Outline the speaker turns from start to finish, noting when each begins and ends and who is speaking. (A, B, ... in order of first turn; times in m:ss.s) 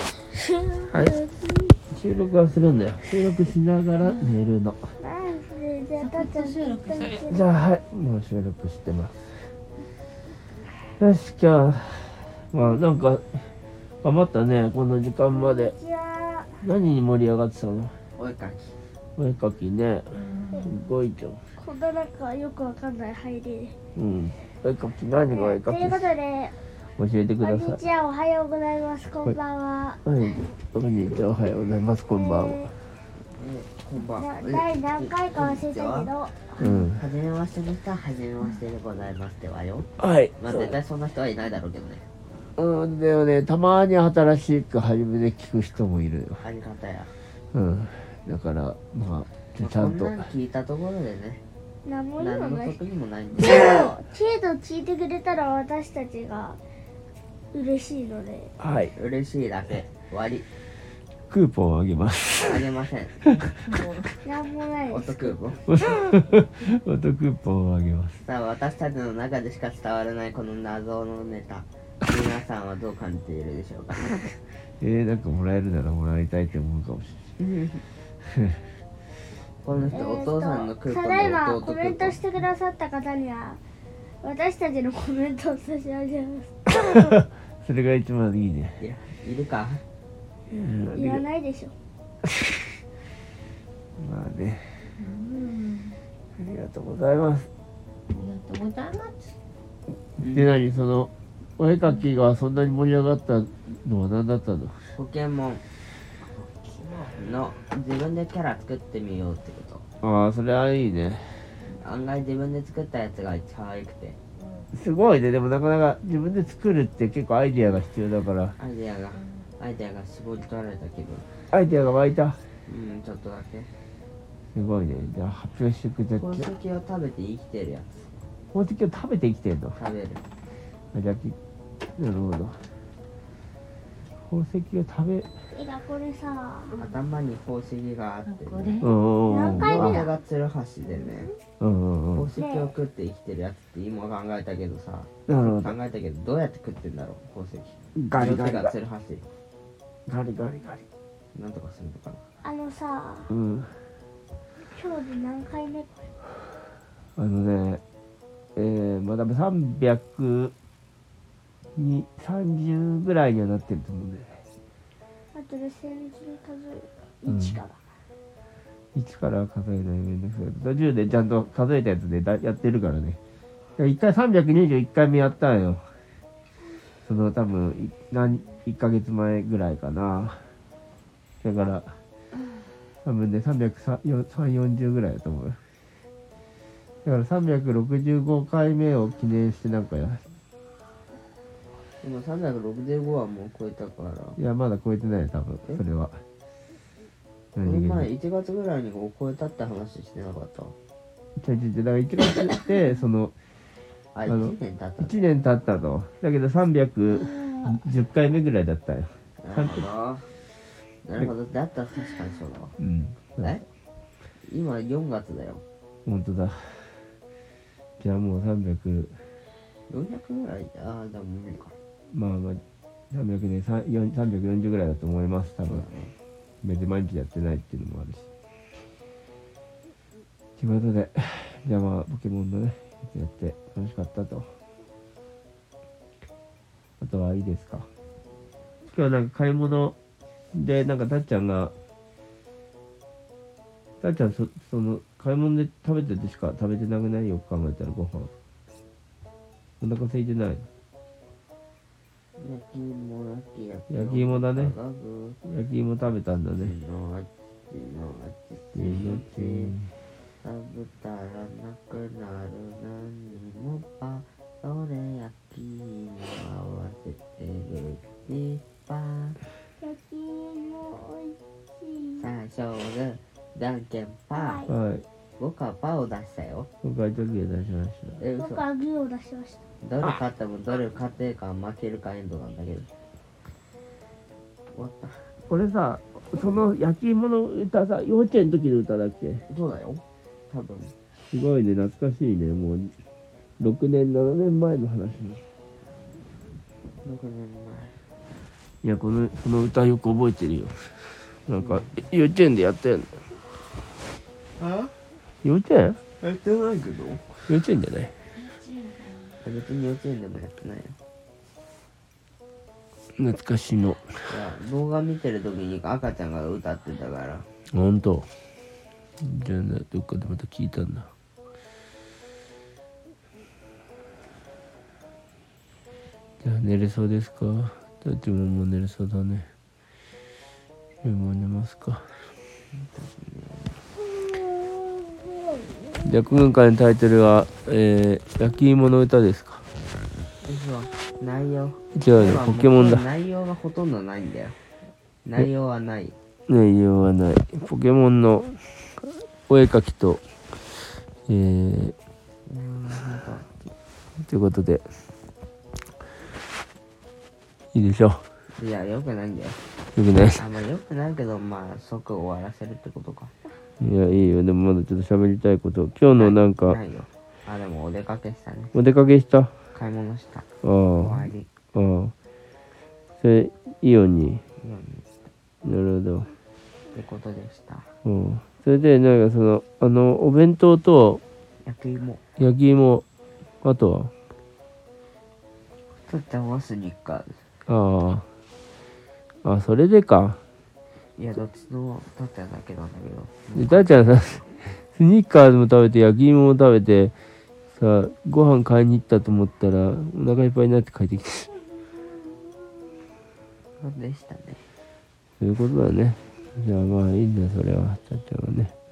0:00.3-0:01.7 A
0:00.9-0:01.2 B
0:01.9-0:04.8 B
0:04.0-0:04.3 C
0:05.0-0:07.4 A
0:06.0-0:07.2 C
0:07.2-0:09.3 B
0:11.0-0:13.4 B
0:14.0-0:15.7 B
0:15.3-0:16.5 A
0:16.6-0:17.9 B
0:18.2-0:18.7 D
0:19.2-0:20.1 B
0:20.6-0:21.4 B
0:21.6-0:23.8 A
0:24.0-0:26.1 B
0:25.2-0:26.6 A
0:27.0-0:27.8 B
0:27.4-0:30.0 A
0:30.0-0:32.7 B
0:32.1-0:32.7 A
0:33.2-0:39.9 D
0:34.0-0:36.6 A
0:36.6-0:37.0 B
0:40.0-0:40.8 B
0:40.4-0:42.0 D
0:42.6-0:46.4 B
0:46.4-0:47.1 D
0:47.5-0:50.2 B
0:49.6-0:51.4 D
0:51.8-0:52.8 A
0:52.2-0:53.8 D
0:53.4-0:56.6 A
0:57.5-0:58.5 A
0:58.6-0:58.9 B
0:58.9-1:00.4 D
1:01.3-1:02.7 B
1:02.4-1:03.3 D
1:04.2-1:05.3 A
1:04.9-1:05.6 D
1:05.7-1:08.2 B
1:08.2-1:14.2 D
1:14.8-1:17.3 B
1:17.4-1:17.8 D
1:18.2-1:18.6 B
1:19.6-1:22.2 D
1:19.7-1:20.0 B
1:19.9-1:23.6 A
1:24.2-1:26.8 A
1:26.8-1:28.8 B
1:28.8-1:29.8 D
1:30.5-1:31.2 B
1:30.9-1:31.7 A
1:32.2-1:32.6 B
1:34.0-1:34.8 B
1:35.0-1:36.0 C
1:36.4-1:37.5 B
1:38.1-1:39.3 C
1:40.2-1:40.6 D
1:40.2-1:44.8 B
1:44.9-1:45.6 D
1:46.9-1:49.8 D
1:50.0-1:51.5 B
1:51.7-1:54.2 D
1:54.7-1:58.6 B
1:58.6-2:01.2 D
2:01.5-2:02.4 B
2:02.7-2:03.7 D
2:04.5-2:06.5 B
2:06.2-2:08.1 D
2:08.5-2:09.8 B
2:09.7-2:10.2 D
2:10.9-2:11.4 B
2:12.0-2:12.6 B
2:14.2-2:15.3 B
2:15.5-2:16.8 A
2:16.7-2:18.8 D
2:18.2-2:18.9 C
2:18.8-2:20.0 B
2:19.3-2:20.1 A
2:19.4-2:21.3 D
2:21.6-2:22.3 B
2:22.1-2:29.2 D
2:22.4-2:22.7 A
2:25.3-2:25.7 B
2:28.0-2:28.7 B
2:30.1-2:30.8 B
2:31.3-2:32.2 D
2:32.4-2:33.3 A
2:33.3-2:33.7 B
2:34.6-2:36.1 A
2:37.2-2:37.8 B
2:38.6-2:40.5 B
2:41.7-2:44.4 B
2:45.3-2:47.8 A
2:47.3-2:47.6 B
2:48.9-2:53.2 B
2:53.8-2:55.8 B
2:57.0-3:00.4 B
3:01.4-3:01.9 B
3:03.0-3:05.6 B
3:07.0-3:10.2 B
3:12.0-3:14.4 D
3:14.4-3:16.2 B
3:17.5-3:18.1 B
3:17.6-3:20.7 D
3:21.4-3:23.3 B
3:24.1-3:25.1 D
3:24.2-3:29.8 B
3:29.4-3:30.3 D
3:31.0-3:32.7 D
3:32.8-3:33.5 B
3:34.4-3:35.6 D
3:36.0-3:37.0 B
3:38.0-3:39.2 B
3:39.9-3:41.7 D
3:42.1-3:45.8 B
3:45.7-3:46.1 D
3:46.6-3:48.2 B
3:50.6-3:54.5 B
3:57.0-3:57.9 B
3:58.9-4:00.0 B
4:00.5-4:01.7 B
4:04.0-4:08.3 B
4:09.8-4:10.7 B
4:12.4-4:15.4 D
4:13.9-4:14.7 B
4:15.4-4:16.7 B
4:16.6-4:19.7 D
4:18.7-4:19.9 B
4:20.4-4:29.4 D
4:29.8-4:32.3 A
4:32.2-4:34.6 D
4:34.3-4:34.7 A
4:34.7-4:35.0 B
4:35.4-4:36.7 D
4:36.8-4:38.2 B
4:38.2-4:38.6 D
4:38.4-4:39.6 A
4:39.8-4:42.9 D
4:44.7-4:45.2 D
4:45.5-4:49.4 B
4:49.5-4:50.9 D
4:51.3-4:52.9 B
4:53.6-4:55.4 B
4:57.0-4:58.0 D
4:58.8-5:03.2 B
5:01.6-5:02.0 D
5:04.6-5:04.9 D
5:05.4-5:06.0 B
5:06.2-5:07.4 D
5:07.5-5:08.1 B
5:08.4-5:09.3 C
5:09.4-5:11.0 D
5:13.2-5:14.1 B
5:14.3-5:17.5 D
5:17.7-5:18.3 B
5:19.2-5:21.1 B
5:26.4-5:29.5 B
5:31.0-5:32.0 B
5:32.7-5:33.8 D
5:36.0-5:39.6 B
5:40.4-5:44.6 D
5:41.9-5:43.0 B
5:45.2-5:46.2 D
5:46.5-5:48.6 B
5:49.4-5:50.2 B
5:51.3-5:51.9 B
5:52.5-5:53.7 D
5:54.2-5:54.8 B
5:57.7-5:58.2 B
5:58.5-5:59.6 D
6:00.0-6:00.4 B
6:00.3-6:03.3 D
6:03.8-6:06.8 B
6:06.1-6:08.7 D
6:08.7-6:09.5 B
6:09.7-6:11.5 D
6:10.6-6:12.1 B
6:13.2-6:14.4 B
6:14.6-6:15.2 D
6:15.6-6:16.3 B
6:16.9-6:17.9 D
6:18.0-6:21.2 B
6:21.6-6:22.2 D
6:22.4-6:23.0 B
6:23.6-6:24.1 B
6:26.0-6:27.4 D
6:27.7-6:28.2 B
6:29.4-6:30.4 B
6:31.2-6:34.5 D
6:33.5-6:37.1 B
6:37.8-6:41.5 B
6:43.8-6:44.6 D
6:45.4-6:48.7 B